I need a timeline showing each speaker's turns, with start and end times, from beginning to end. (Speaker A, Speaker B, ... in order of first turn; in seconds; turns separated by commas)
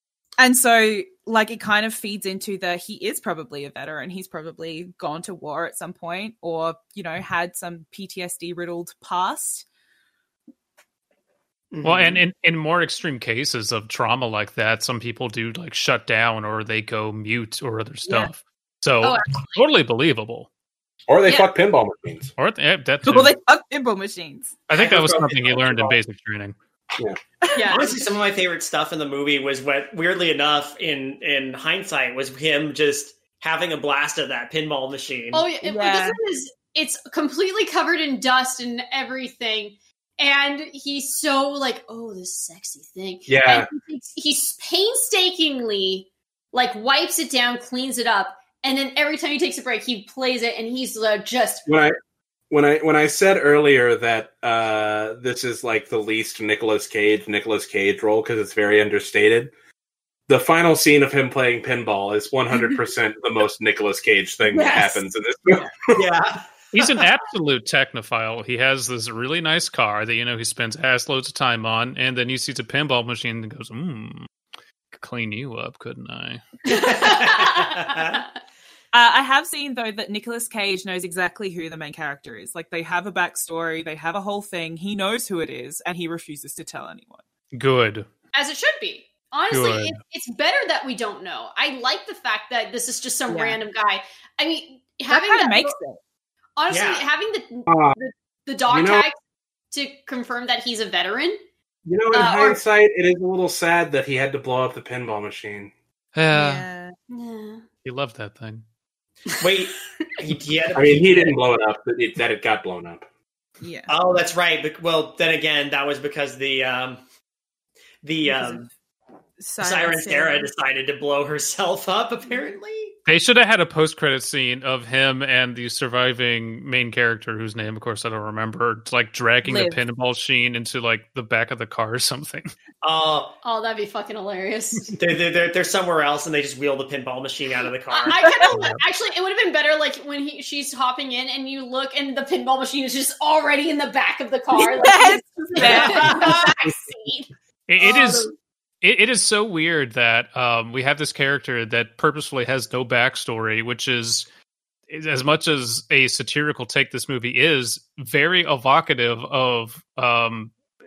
Speaker A: 0.4-9.7, Speaker B: 11.7-12.2, Speaker C: 11.8-20.5, Speaker A: 18.1-18.3, Speaker D: 19.0-19.6, Speaker E: 21.1-22.3, Speaker C: 22.4-23.4, Speaker A: 23.1-24.6, Speaker C: 24.7-26.6, Speaker B: 24.7-26.0, Speaker A: 27.4-27.7, Speaker D: 27.5-27.9, Speaker B: 27.7-35.5, Speaker D: 35.3-51.7, Speaker A: 35.6-36.2, Speaker E: 43.3-43.7, Speaker E: 51.7-52.0, Speaker E: 52.5-59.5, Speaker E: 60.3-66.0, Speaker A: 64.5-65.7, Speaker B: 65.9-67.0, Speaker C: 66.7-74.3, Speaker C: 74.9-76.4, Speaker B: 76.7-78.2, Speaker D: 76.7-78.2, Speaker A: 78.9-87.2, Speaker C: 87.5-88.1, Speaker D: 88.3-95.8, Speaker C: 89.5-90.0, Speaker A: 93.3-93.6, Speaker A: 95.1-96.0, Speaker D: 96.6-99.2, Speaker B: 96.7-97.0, Speaker E: 97.7-98.0, Speaker E: 98.7-99.0, Speaker D: 99.7-101.4, Speaker E: 101.9-105.7, Speaker D: 102.1-102.6, Speaker C: 106.2-106.7, Speaker A: 106.3-107.0, Speaker D: 107.1-107.6, Speaker C: 107.8-108.6, Speaker B: 109.4-111.4, Speaker E: 110.8-113.1, Speaker A: 113.6-113.9, Speaker B: 113.9-117.0, Speaker B: 118.0-118.7, Speaker A: 118.2-118.7, Speaker A: 119.4-120.5, Speaker B: 119.6-123.0, Speaker C: 123.1-132.5, Speaker A: 129.4-129.8, Speaker B: 132.8-133.3, Speaker D: 133.4-135.0, Speaker B: 135.0-138.2, Speaker D: 137.9-147.3, Speaker A: 138.2-138.6, Speaker C: 138.5-138.8, Speaker A: 144.5-146.5, Speaker B: 145.6-146.5, Speaker C: 147.7-148.3, Speaker B: 147.8-148.2, Speaker C: 148.8-154.3, Speaker C: 154.9-160.6